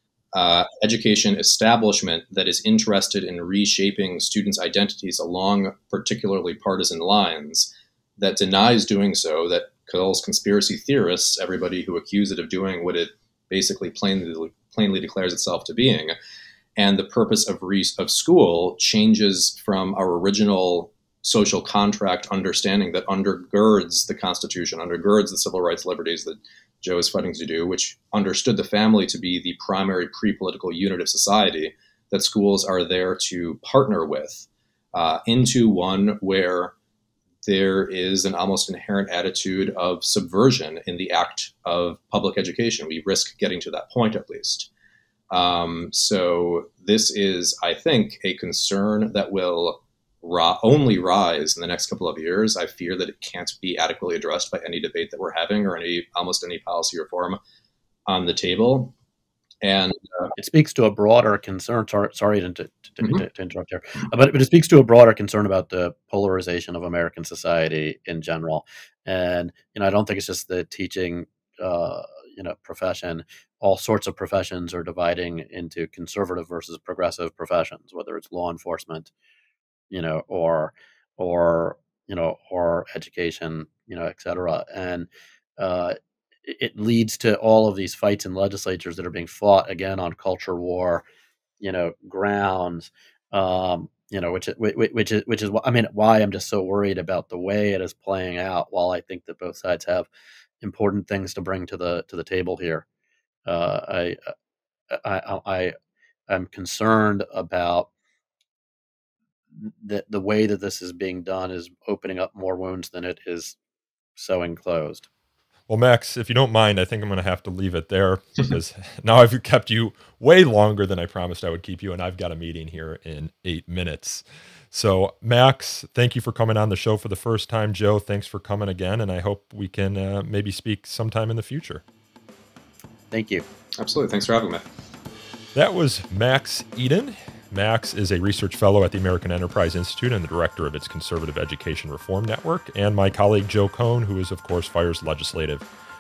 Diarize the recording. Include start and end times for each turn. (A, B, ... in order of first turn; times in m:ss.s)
0:00.3-0:16.1 A
0:16.8-0:36.8 A
0:37.4-0:44.7 A
0:45.3-0:57.4 A
0:58.1-0:58.9 A
0:59.6-1:00.3 A
1:00.4-1:19.1 B
1:19.9-1:31.0 B
1:31.6-1:40.1 B
1:40.6-1:42.8 B
1:43.5-1:44.3 B
1:44.9-1:45.7 B
1:46.3-1:47.9 B
1:49.6-1:53.6 B
1:54.2-1:55.1 B
1:55.7-2:11.8 C
2:13.1-2:13.4 B
2:13.8-2:14.6 A
2:15.6-2:25.7 C